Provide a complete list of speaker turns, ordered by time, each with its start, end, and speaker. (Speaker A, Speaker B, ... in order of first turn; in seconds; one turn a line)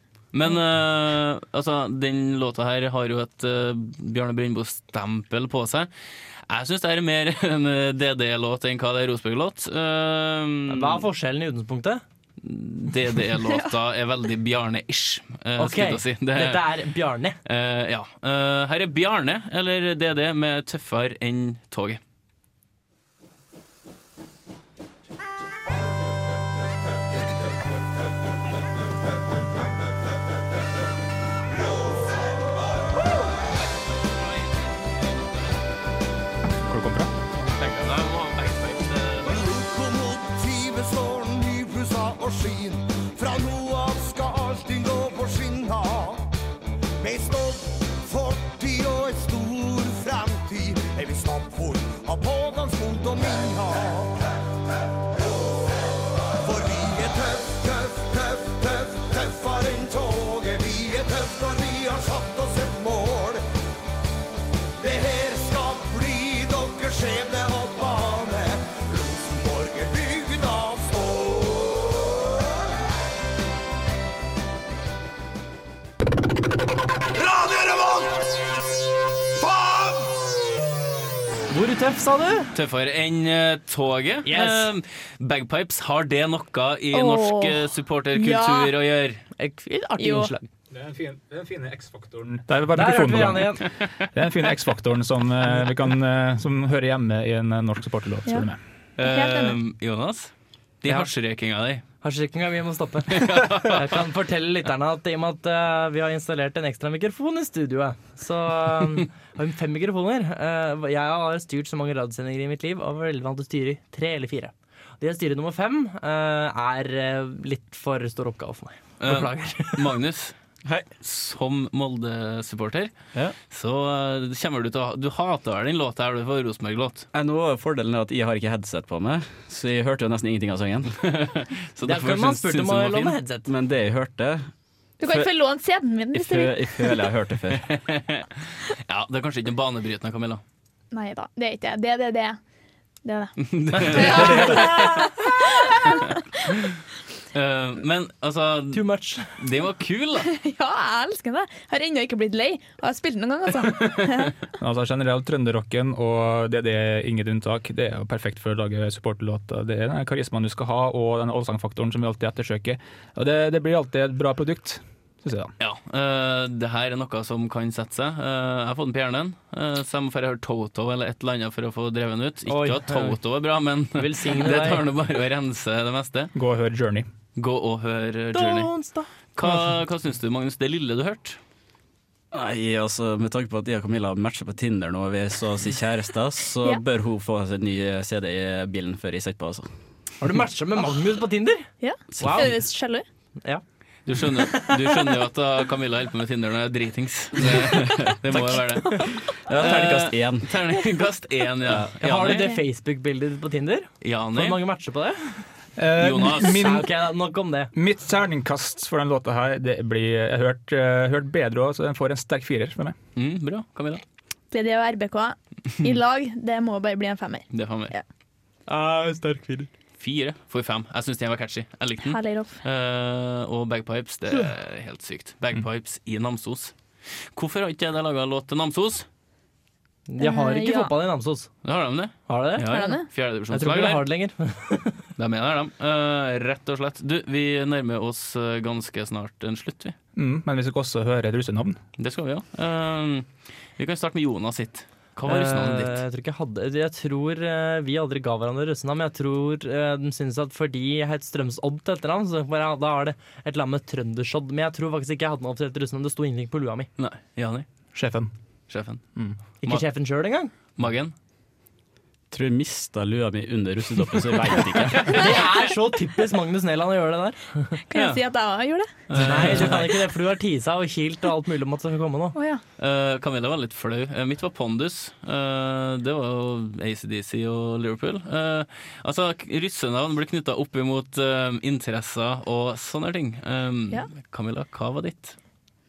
Speaker A: 0.3-5.9
Speaker A: 6.5-11.1
Speaker B: 10.7-12.0
Speaker A: 12.4-16.6
Speaker B: 15.6-17.4
Speaker A: 17.4-22.0
Speaker C: 36.7-37.1
Speaker A: 37.5-39.4
Speaker D: 39.2-46.3
Speaker D: 47.0-54.2
Speaker D: 56.3-63.4
Speaker D: 64.8-72.4
Speaker D: 77.1-78.3
Speaker D: 79.4-80.3
Speaker B: 81.5-82.5
Speaker A: 82.5-89.2
Speaker B: 84.2-84.7
Speaker E: 86.9-88.7
Speaker B: 89.4-90.5
Speaker E: 90.0-90.3
Speaker C: 90.7-98.6
Speaker B: 92.7-93.6
Speaker A: 99.0-101.8
Speaker E: 99.0-99.6
Speaker B: 102.0-119.9
Speaker A: 103.1-103.9
Speaker A: 119.0-120.3
Speaker A: 121.0-122.9
Speaker A: 123.5-127.1
Speaker F: 127.1-130.9
Speaker A: 131.0-133.2
Speaker B: 131.8-133.5
Speaker F: 133.4-134.5
Speaker E: 135.0-137.1
Speaker F: 135.0-135.3
Speaker F: 136.1-137.7
Speaker A: 137.5-140.4
Speaker E: 140.9-142.4
Speaker E: 143.0-146.2
Speaker A: 143.4-145.2
Speaker B: 143.7-145.0
Speaker A: 147.3-148.8
Speaker B: 148.7-149.3
Speaker A: 149.4-150.3
Speaker E: 150.2-154.3
Speaker C: 154.6-165.5
Speaker A: 165.6-176.3
Speaker B: 172.5-173.2
Speaker B: 173.9-174.8
Speaker C: 176.3-177.1
Speaker A: 177.3-178.7
Speaker B: 178.3-179.6
Speaker A: 179.3-181.4
Speaker F: 182.3-189.7
Speaker B: 190.2-192.5
Speaker E: 191.8-193.0
Speaker A: 194.1-202.5
Speaker F: 197.6-198.1
Speaker F: 199.3-200.5
Speaker B: 202.0-205.4
Speaker E: 202.2-202.6
Speaker A: 204.0-204.6
Speaker C: 205.8-206.9
Speaker A: 206.0-206.6
Speaker B: 206.3-207.7
Speaker C: 207.7-213.0
Speaker A: 213.2-214.0
Speaker E: 214.5-218.0
Speaker A: 217.5-217.9
Speaker B: 218.7-219.7
Speaker A: 220.0-226.7
Speaker E: 222.1-222.6
Speaker A: 227.3-229.1
Speaker B: 230.1-231.5
Speaker E: 230.2-230.9
Speaker A: 231.6-234.0
Speaker B: 232.3-232.9
Speaker E: 232.7-233.1
Speaker B: 233.5-235.0
Speaker A: 235.2-239.9
Speaker C: 240.2-241.8
Speaker A: 242.0-246.0
Speaker B: 245.2-256.9
Speaker A: 257.0-257.6
Speaker C: 257.9-258.3
Speaker A: 258.7-259.0
Speaker B: 259.6-260.5
Speaker A: 260.8-261.1
Speaker F: 262.3-265.2
Speaker B: 265.1-267.8
Speaker E: 267.9-268.9
Speaker A: 267.9-268.2
Speaker A: 269.1-270.0
Speaker B: 269.2-272.4
Speaker E: 272.3-272.6
Speaker A: 272.8-285.4